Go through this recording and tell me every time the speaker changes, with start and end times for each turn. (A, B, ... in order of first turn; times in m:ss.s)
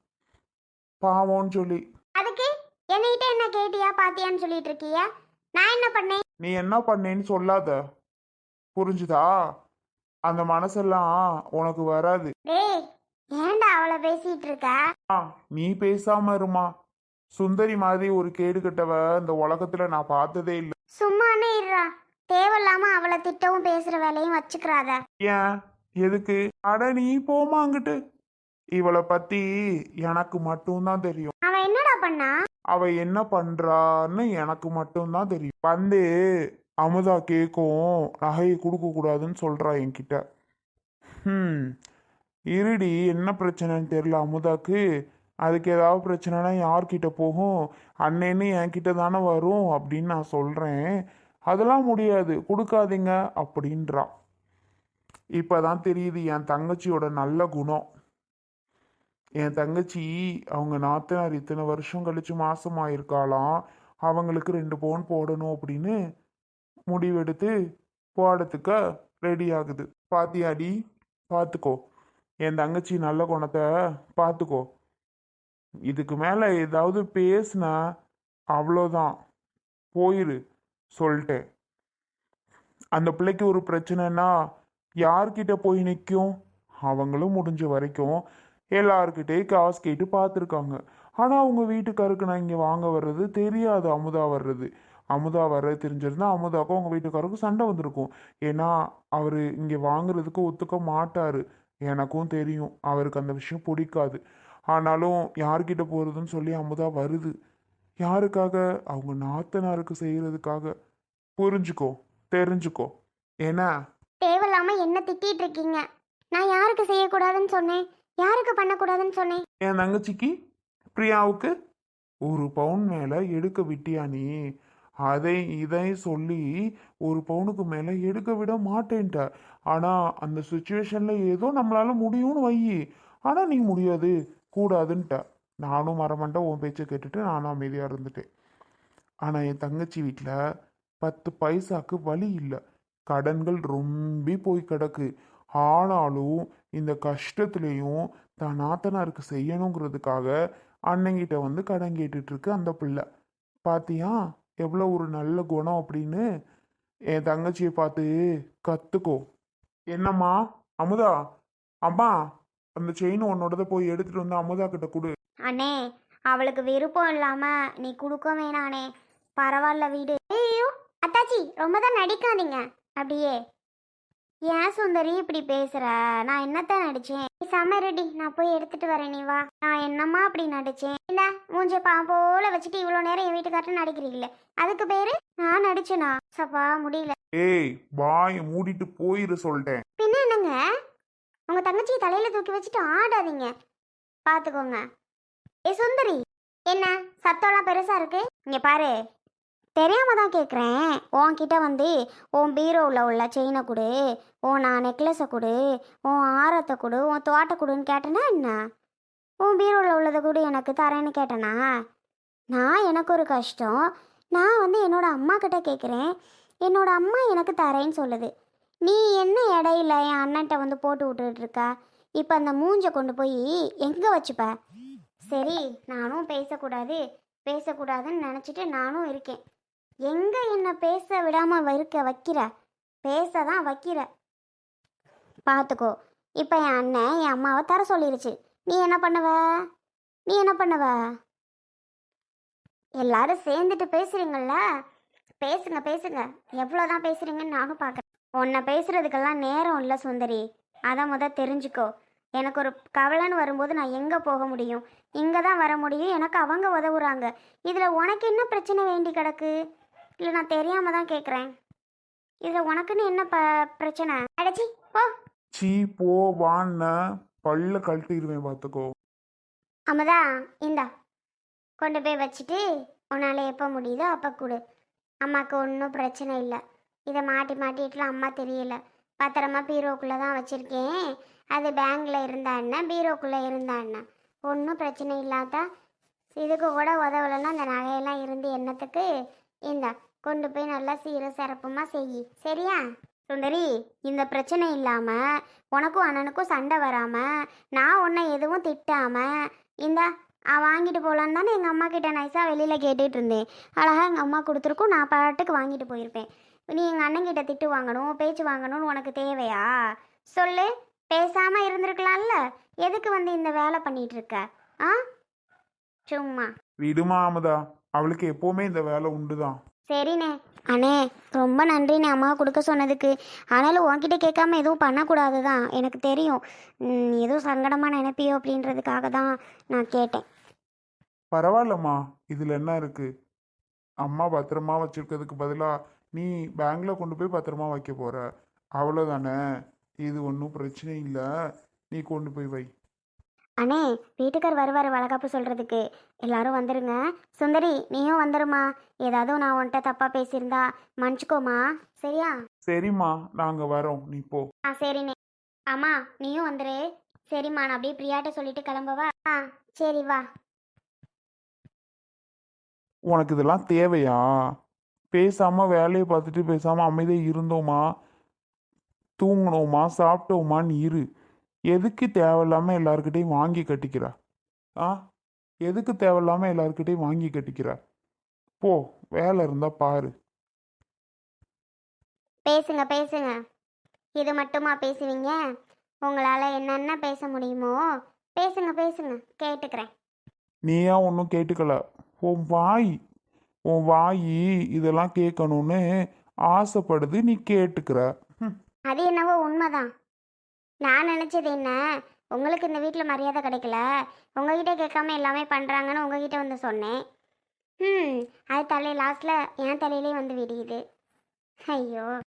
0:01.0-0:01.8 A
0:02.2-0:05.0 B
0:05.6-0:06.2 B
0:06.4-0:07.8 A
0:08.7-0:09.3 A
0:10.3-0:12.3 A
0:12.5-0:12.8 B
0:13.4-0:14.8 B
0:15.1-0:16.7 A
0:17.3-0:20.7 A
0:21.0-0:25.0 B
0:25.2-0:25.4 A
0:26.0-0:28.0 A
0:28.8-0:29.4 A
0:30.0-0:31.3 A
0:31.4-0:32.3 B
0:32.7-0:36.1 A
0:36.8-0:40.2 A
0:41.2-0:41.7 A
0:42.5-0:44.8 A
0:45.4-0:47.5 A
0:48.0-0:50.8 A
0:51.5-0:54.1 A
0:55.4-0:57.8 A
0:59.4-1:03.5 A
1:04.1-1:05.9 A
1:06.9-1:07.5 A
1:08.2-1:10.7 A
1:11.3-1:11.8 A
1:12.4-1:14.6 A
1:15.9-1:17.8 A
1:18.5-1:19.1 A
1:20.0-1:20.4 A
1:20.9-1:21.4 A
1:22.9-1:24.3 A
1:25.0-1:26.3 A
1:26.8-1:28.2 A
1:28.8-1:44.2 A
1:44.7-1:47.3 A
1:48.0-1:50.7 A
1:51.4-1:52.9 A
1:54.2-1:59.4 B
1:59.6-2:00.3 A
2:00.9-2:01.5 A
2:02.2-2:04.3 A
2:05.0-2:06.5 A
2:07.0-2:18.2 A
2:19.2-2:20.4 A
2:21.0-2:22.6 A
2:23.1-2:25.1 A
2:25.6-2:30.3 A
2:30.9-2:33.0 A
2:33.7-2:36.2 A
2:37.1-2:38.1 A
2:38.6-2:39.2 A
2:39.9-2:41.1 A
2:41.8-2:42.1 A
2:42.8-2:45.1 A
2:45.5-2:45.8 B
2:46.3-2:53.4 B
2:54.5-3:07.1 B
3:07.3-3:09.8 A
3:10.0-3:10.6 B
3:11.5-3:13.5 B
3:14.2-3:14.8 B
3:15.6-3:18.9 B
3:19.8-3:23.9 B
3:24.5-3:25.5 B
3:26.1-3:28.6 B
3:29.4-3:31.6 B
3:32.5-3:33.8 B
3:34.3-3:36.1 B
3:36.6-3:38.3 B
3:38.8-3:41.7 B
3:42.2-3:44.5 B
3:45.3-3:49.4 B
3:50.1-3:52.5 B
3:53.0-3:54.1 B
3:55.5-3:59.4 B
4:00.3-4:01.0 B
4:03.0-4:04.6 B
4:05.4-4:19.5 B
4:20.2-4:21.5 B
4:22.4-4:25.1 B
4:25.5-4:28.9 A
4:29.9-4:30.9 B
4:31.8-4:34.6 B
4:35.2-4:45.6 B
4:46.4-4:49.1 B
4:49.7-4:55.2 B
4:55.7-4:59.3 B
4:59.8-5:09.7 B
5:10.3-5:15.0 B
5:16.1-5:16.5 B
5:16.8-5:19.6 A
5:19.9-5:30.2 B
5:31.3-5:33.1 A
5:34.0-5:38.2 A
5:38.8-5:39.3 A
5:40.0-5:41.2 A
5:41.9-5:42.7 A
5:43.6-5:52.3 B
5:52.7-5:54.4 A
5:54.7-5:55.1 B
5:55.7-6:00.2 B
6:03.1-6:04.2 A
6:05.1-6:07.8 A
6:09.2-6:11.0 A
6:11.7-6:14.1 A
6:15.6-6:17.8 A
6:18.6-6:20.1 A
6:22.4-6:23.3 B
6:24.2-6:25.4 B
6:26.0-6:27.8 B
6:28.4-6:29.9 B
6:30.7-6:32.9 A
6:33.7-6:35.8 A
6:36.5-6:38.5 A
6:38.9-6:39.9 B
6:40.8-6:41.8 B
6:42.3-6:43.8 B
6:44.4-6:47.0 B
6:47.8-6:50.8 B
6:51.7-6:52.1 B